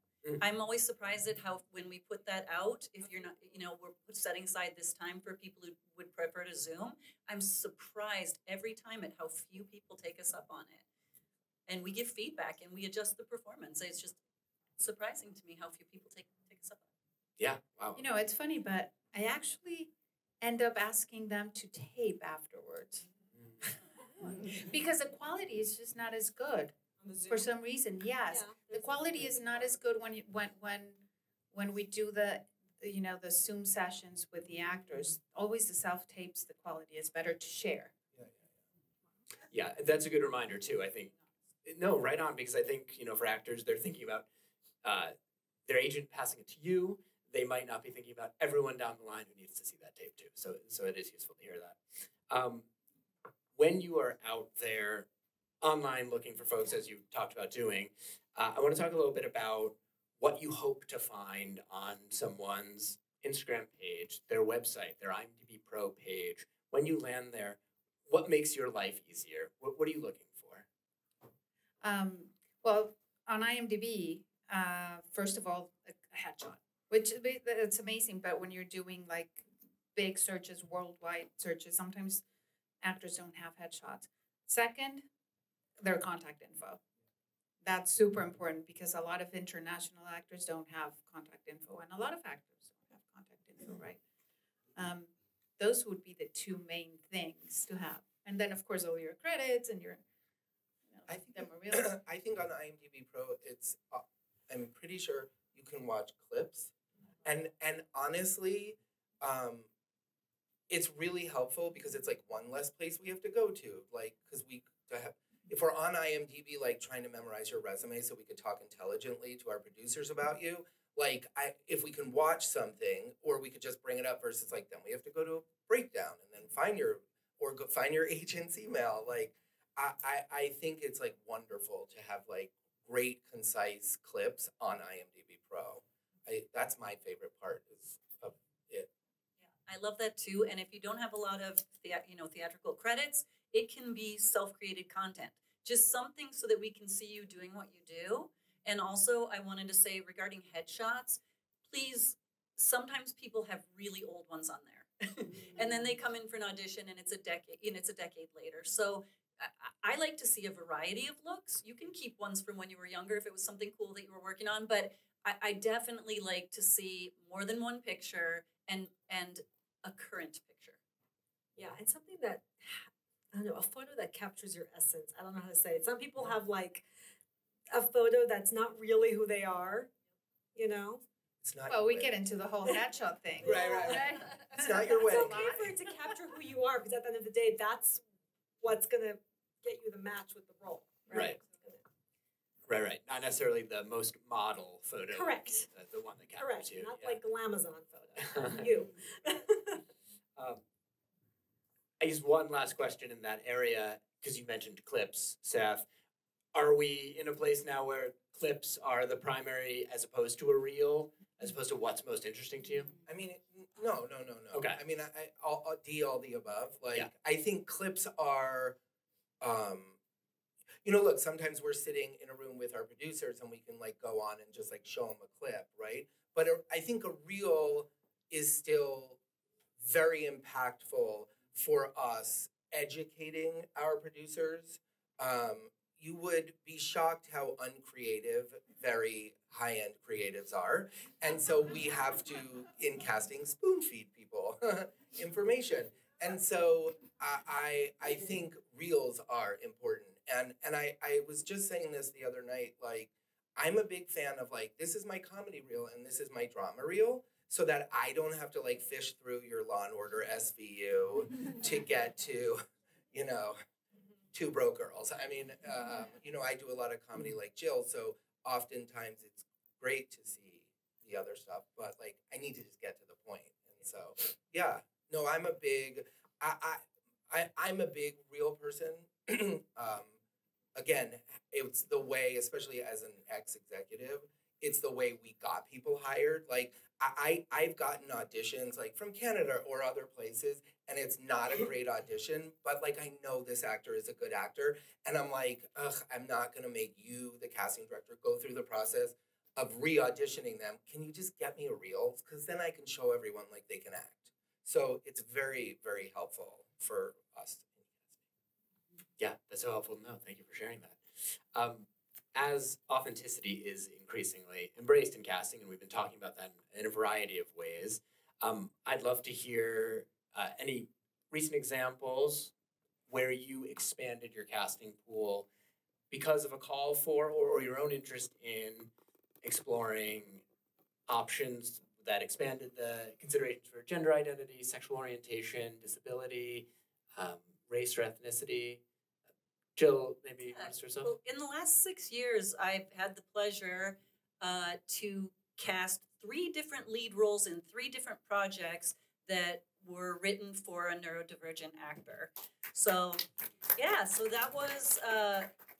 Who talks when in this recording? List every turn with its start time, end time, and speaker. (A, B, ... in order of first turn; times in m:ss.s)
0:00.4-0:10.8 A
0:11.7-0:14.2 A
0:14.8-0:16.8 A
0:18.0-0:19.9 B
0:20.4-0:23.1 B
0:24.5-0:26.8 B
0:27.0-0:27.5 C
0:27.3-0:37.9 B
0:28.3-0:29.8 C
0:38.1-0:38.4 D
0:39.5-0:41.1 E
0:41.6-0:44.3 E
0:44.8-0:45.1 E
0:45.6-0:52.7 E
0:53.5-0:55.1 E
0:55.6-1:10.6 E
1:11.8-1:22.2 B
1:22.8-1:25.0 B
1:25.8-1:26.8 B
1:27.6-1:34.0 B
1:34.8-1:40.0 B
1:40.9-1:41.9 B
1:41.1-1:46.7 D
1:47.2-1:49.7 D
1:50.7-2:18.9 D
2:19.6-2:50.8 A
2:51.6-2:56.8 C
2:57.7-2:59.9 C
3:00.5-3:01.0 C
3:01.4-3:02.2 D
3:01.7-3:05.7 B
3:03.4-3:05.6 D
3:03.4-3:04.0 C
3:05.0-3:08.0 C
3:08.6-3:11.8 C
3:11.1-3:11.4 E
3:12.7-3:17.2 E
3:15.1-3:15.7 C
3:16.4-3:19.8 C
3:18.2-3:18.7 E
3:20.4-3:20.6 E
3:22.0-3:25.8 E
3:26.5-3:32.9 E
3:33.0-3:38.8 D
3:34.5-3:34.8 E
3:39.4-3:40.0 D
3:40.8-3:49.2 D
3:49.8-4:23.6 D
4:24.3-4:40.2 D
4:40.8-5:08.2 D
5:09.2-5:22.5 E
5:23.1-5:25.5 E
5:26.1-5:28.9 E
5:29.4-5:30.4 E
5:31.1-5:38.8 E
5:39.8-5:41.1 E
5:40.5-5:53.2 A
5:53.8-5:55.5 A